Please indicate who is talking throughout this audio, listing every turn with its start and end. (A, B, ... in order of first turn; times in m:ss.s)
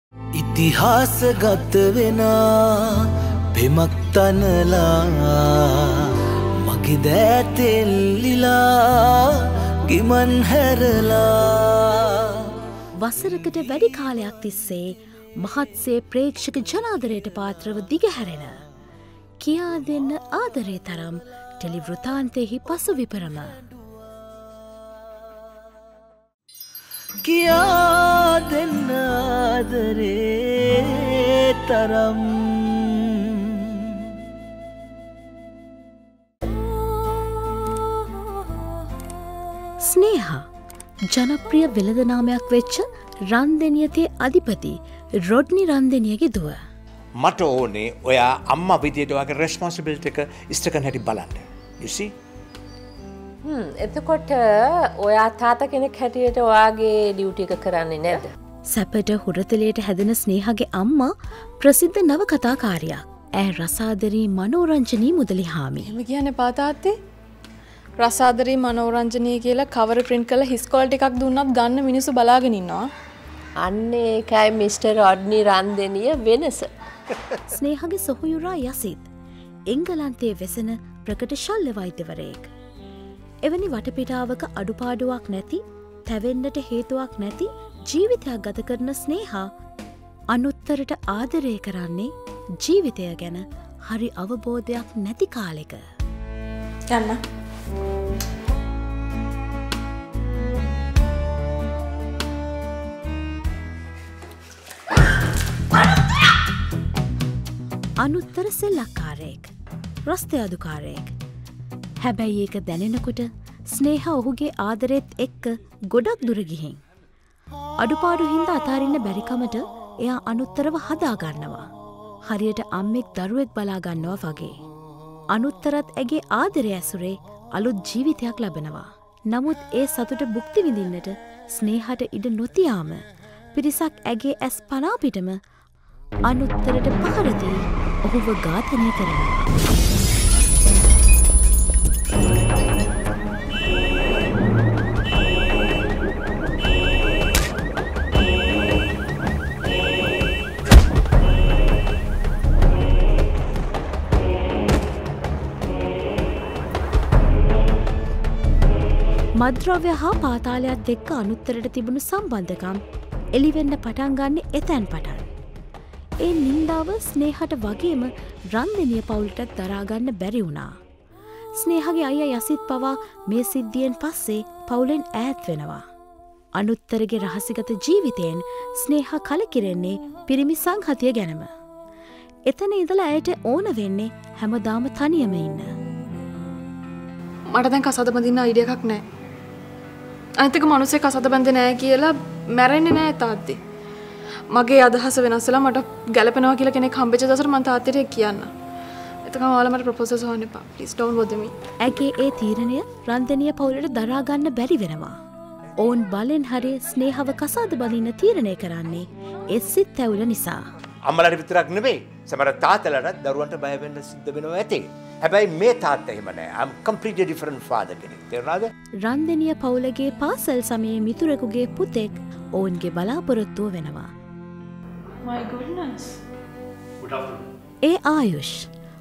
0:00.4-0:06.1 A
0:06.6-0:12.4 A
0:13.0-0:18.6 B
0:19.4-0:23.5 B
0:27.2-0:34.0 A
0:39.8-0:40.5 B
0:41.1-0:46.6 B
0:47.2-0:52.1 C
0:53.4-0:58.3 D
0:58.7-1:05.9 B
1:05.8-1:07.0 E
1:08.0-1:12.9 E
1:13.6-1:16.7 D
1:17.5-1:19.1 B
1:19.7-1:22.5 B
1:23.4-1:29.5 B
1:30.3-1:35.8 B
1:36.9-1:37.2 E
1:48.0-1:49.5 B
1:50.1-1:51.1 B
1:52.0-1:56.8 B
1:57.8-2:01.7 B
2:02.3-2:04.6 B
2:05.3-2:13.0 B
2:13.6-2:15.4 B
2:16.3-2:19.4 B
2:39.4-2:42.8 B
2:43.4-2:45.3 B
2:46.2-2:50.8 B
2:51.6-2:55.8 B
2:56.6-3:01.5 B
3:02.5-3:05.7 B
3:07.5-3:09.0 E
3:10.4-3:13.6 E
3:14.5-3:18.5 E
3:19.3-3:21.5 E
3:21.8-3:25.2 B
3:25.8-3:30.6 B
3:31.1-3:38.7 C
3:39.0-3:44.1 B
3:45.2-3:46.2 E
3:47.8-3:48.7 B